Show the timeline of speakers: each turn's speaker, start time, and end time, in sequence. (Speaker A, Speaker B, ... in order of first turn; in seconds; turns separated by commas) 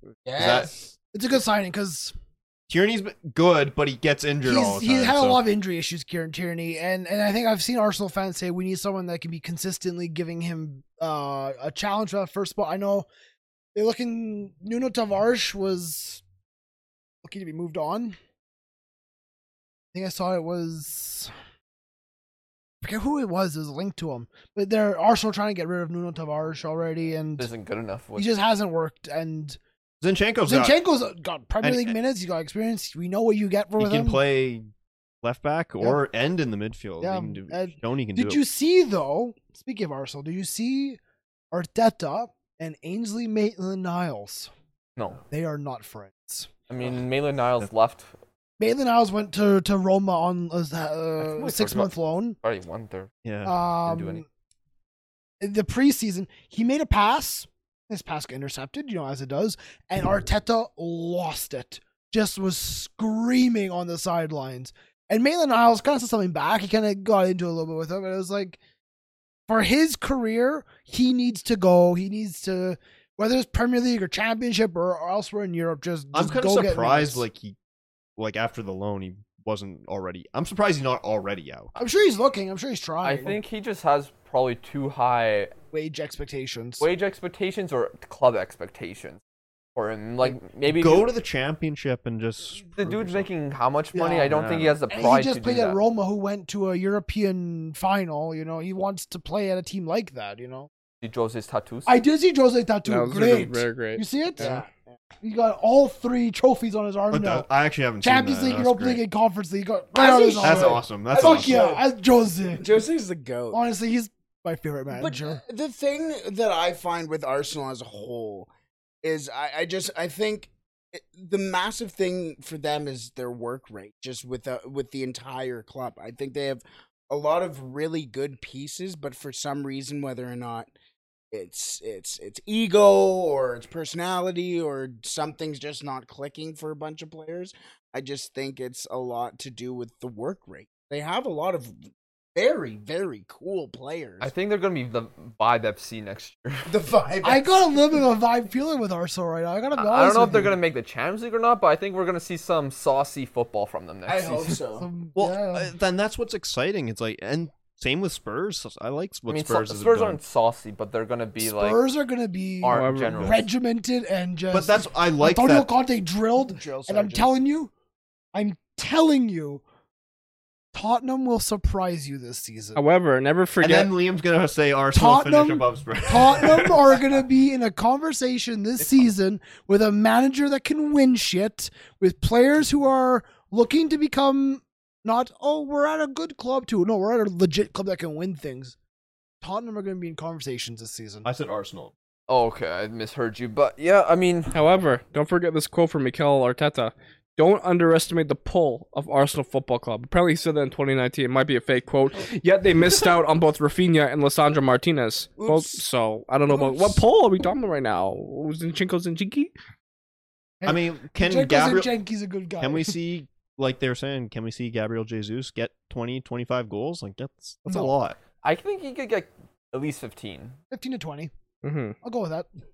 Speaker A: 0.3-0.9, Speaker B: 0.4-0.7, Speaker C: 1.1-2.1, Speaker B: 2.7-5.4, Speaker C: 4.4-13.1, Speaker C: 13.8-16.2, Speaker C: 17.2-18.2, Speaker C: 19.9-21.3, Speaker C: 22.8-27.5, Speaker D: 27.4-28.3, Speaker C: 28.1-29.6, Speaker B: 30.0-30.8, Speaker C: 30.4-34.2, Speaker B: 31.6-31.9, Speaker B: 33.8-34.7, Speaker B: 35.2-38.4, Speaker C: 37.0-41.0, Speaker C: 41.5-44.5, Speaker C: 45.3-46.5, Speaker D: 46.7-48.1, Speaker C: 48.6-52.4, Speaker D: 51.2-53.1, Speaker B: 53.2-53.6, Speaker C: 53.4-54.2, Speaker D: 53.9-54.2, Speaker C: 55.4-68.6, Speaker C: 69.5-77.2, Speaker B: 76.1-77.6, Speaker B: 78.2-81.7, Speaker C: 81.8-83.4, Speaker D: 83.0-85.5, Speaker C: 85.7-86.8, Speaker D: 86.8-89.2, Speaker D: 89.8-91.1, Speaker B: 90.7-93.3, Speaker D: 92.7-95.8, Speaker C: 93.9-94.3, Speaker B: 94.3-94.8, Speaker C: 94.9-100.7, Speaker D: 101.0-102.0, Speaker C: 101.9-104.4, Speaker E: 102.8-104.5, Speaker A: 104.4-105.0, Speaker C: 105.2-107.5, Speaker B: 107.1-109.0, Speaker C: 108.0-112.7, Speaker A: 109.9-111.8, Speaker B: 110.4-111.7, Speaker A: 112.5-113.6, Speaker C: 113.5-115.4, Speaker A: 114.9-118.5, Speaker A: 119.0-130.7, Speaker A: 131.3-144.3, Speaker D: 144.2-146.7, Speaker A: 146.7-147.7, Speaker C: 147.2-150.5, Speaker D: 149.8-154.6, Speaker A: 154.1-154.9, Speaker C: 154.8-155.7, Speaker B: 155.2-160.2, Speaker D: 159.3-161.8, Speaker C: 161.4-167.7, Speaker D: 162.6-163.5, Speaker E: 162.7-163.3, Speaker B: 164.5-165.7, Speaker A: 166.4-167.3, Speaker C: 168.3-169.6, Speaker C: 170.7-172.8, Speaker E: 172.8-174.0, Speaker B: 173.6-177.0, Speaker C: 174.9-188.8, Speaker C: 189.4-191.3, Speaker B: 191.2-191.9, Speaker D: 192.3-194.5, Speaker E: 194.5-209.5, Speaker A: 205.4-205.9, Speaker A: 206.5-207.0, Speaker C: 210.6-213.0, Speaker B: 210.7-211.9, Speaker B: 212.6-218.2, Speaker C: 217.7-217.9, Speaker D: 218.4-220.6, Speaker C: 220.7-221.3, Speaker E: 221.6-221.9, Speaker C: 222.0-222.5